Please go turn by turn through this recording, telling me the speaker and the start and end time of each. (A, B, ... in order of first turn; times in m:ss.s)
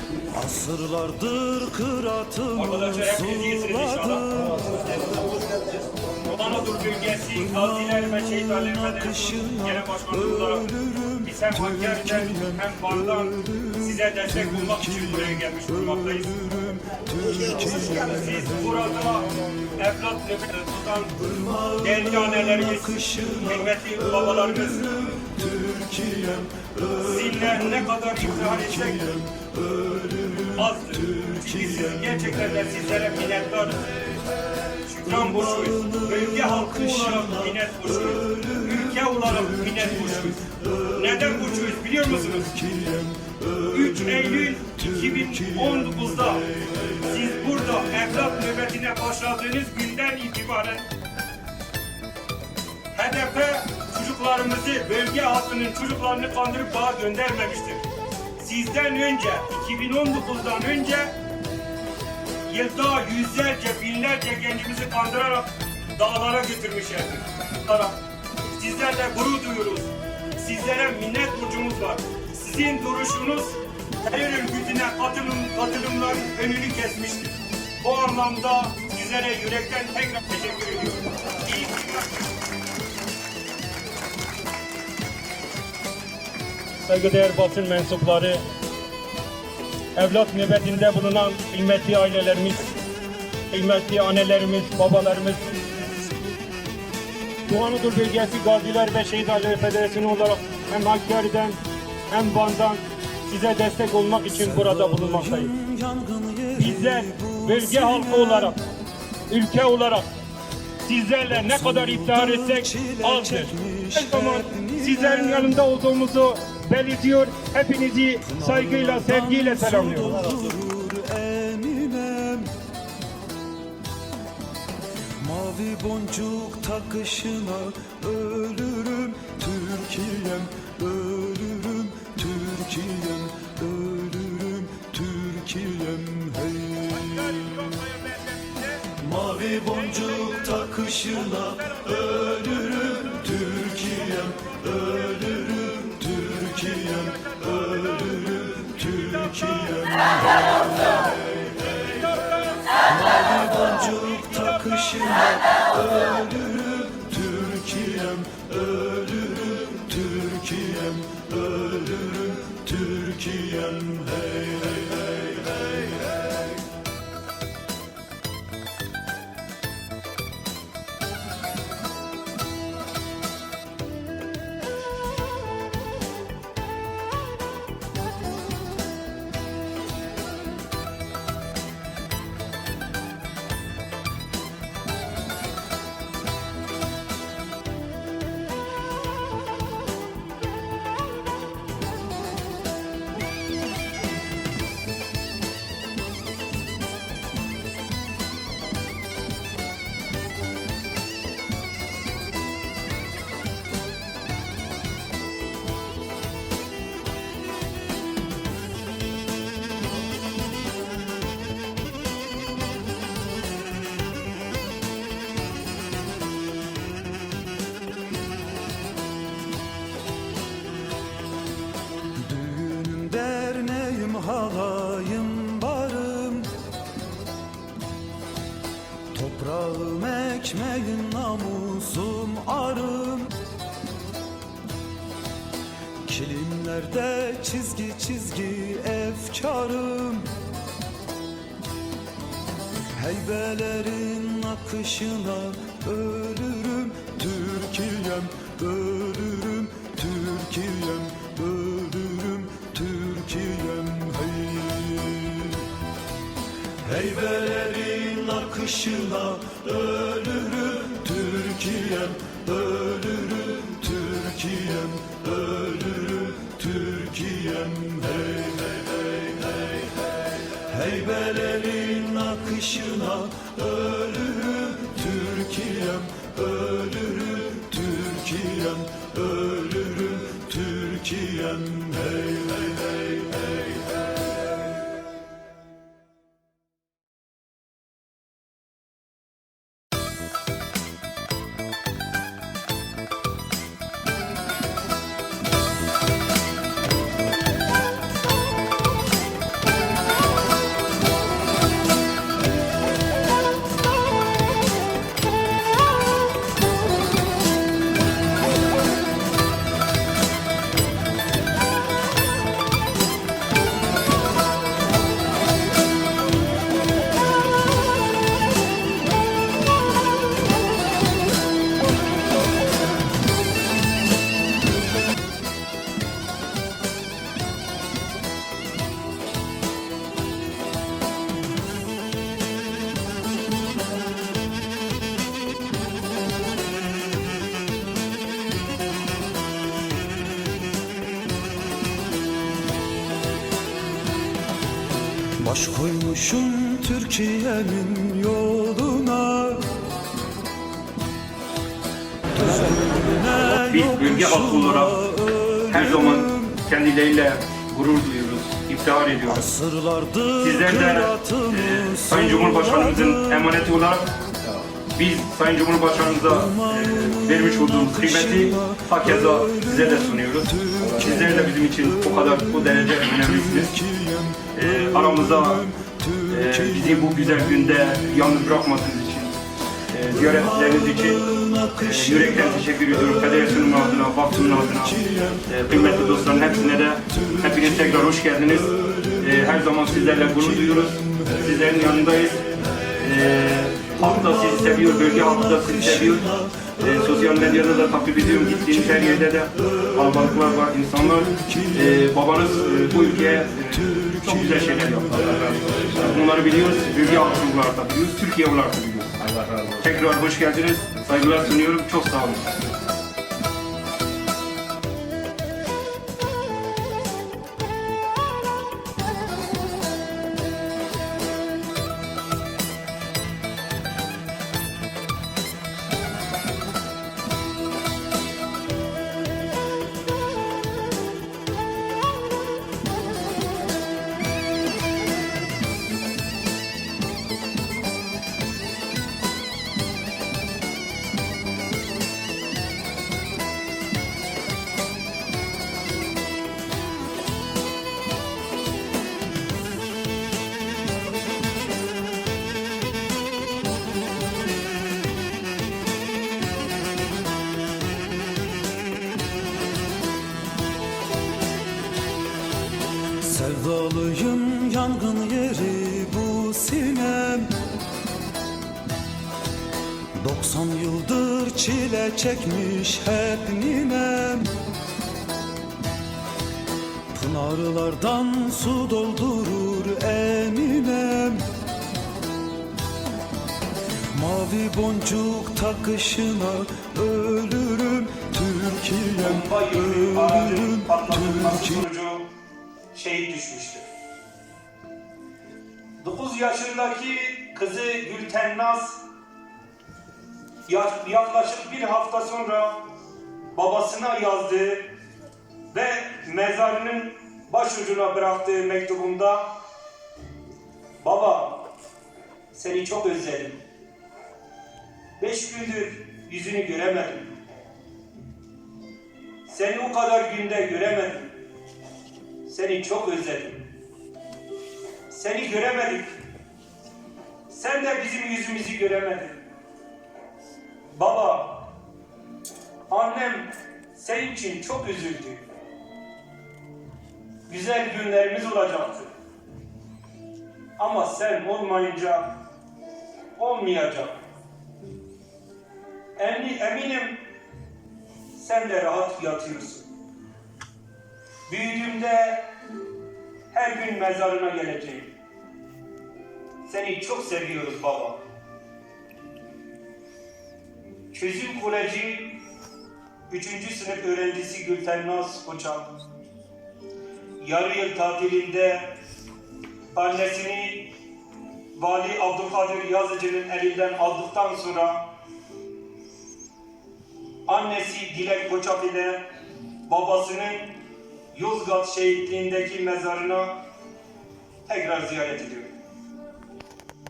0:00.3-0:04.8 A
0:02.5-0:16.6 B
0:07.4-0:11.2 A
0:16.3-0:18.1 A
0:17.4-0:25.1 B
0:21.4-0:23.6 A
0:24.5-0:27.0 A
0:27.0-0:29.2 B
0:28.4-0:30.4 A
0:30.5-0:34.0 B
0:34.8-0:42.7 B
0:35.2-0:37.2 A
0:43.7-0:46.5 B
0:47.0-0:50.9 B
0:52.9-0:57.9 B
0:58.4-1:01.2 B
1:02.5-1:08.0 B
1:08.5-1:22.1 B
1:26.8-1:28.4 B
1:30.0-1:32.7 B
1:33.5-1:35.5 B
1:37.5-1:41.6 B
1:42.1-1:45.6 B
1:44.3-1:48.6 A
1:46.6-1:48.6 B
1:49.3-1:50.1 B
1:50.8-2:00.3 B
1:51.3-1:55.6 A
1:58.2-2:02.5 A
2:05.2-2:17.4 A
2:17.1-2:18.6 B
2:19.0-2:30.6 A
2:21.4-2:23.0 B
2:27.4-2:28.2 B
2:32.7-2:44.8 A
3:42.2-3:46.5 A
3:49.1-3:53.4 A
3:56.0-4:00.3 A
4:03.0-4:15.6 A
4:16.8-4:29.1 A
4:30.5-4:42.6 A
5:45.4-5:49.8 A
5:52.4-5:56.4 A
5:53.6-5:55.1 B
5:55.7-5:59.5 B
5:59.3-6:03.5 A
6:00.4-6:04.1 B
6:04.9-6:13.8 B
6:06.5-6:08.8 A
6:14.0-6:14.4 A
6:14.5-6:15.7 B
6:16.2-6:19.4 B
6:19.9-6:32.5 B
6:21.3-6:21.8 A
6:33.0-6:52.5 B
6:34.6-6:35.4 A
6:36.1-6:36.6 A
7:43.2-7:47.6 A
7:50.2-7:54.6 A
7:57.1-8:01.5 A
8:04.1-8:09.4 A
8:09.2-8:12.3 B
8:10.1-8:10.8 A
8:12.9-8:13.8 B
8:16.0-8:19.0 B
8:20.7-8:22.9 B
8:23.5-8:24.9 B
8:25.7-8:29.6 B
8:31.0-8:31.7 B
8:32.5-8:33.6 B
8:35.2-8:37.3 B
8:39.5-8:41.3 B
8:42.5-8:43.6 B
8:45.1-8:46.2 B
8:47.5-8:49.4 B
8:50.9-8:51.7 B
8:52.9-8:55.4 B
8:57.5-8:59.1 B
9:00.8-9:02.4 B
9:03.4-9:04.2 B
9:06.2-9:07.2 B
9:08.3-9:09.9 B
9:11.5-9:12.5 B
9:13.5-9:15.1 B
9:16.6-9:18.2 B
9:21.1-9:22.4 B
9:23.3-9:25.9 B
9:27.4-9:29.0 B
9:29.9-9:30.9 B
9:31.8-9:35.1 B
9:37.5-9:39.3 B
9:39.8-9:43.6 B
9:44.6-9:45.7 B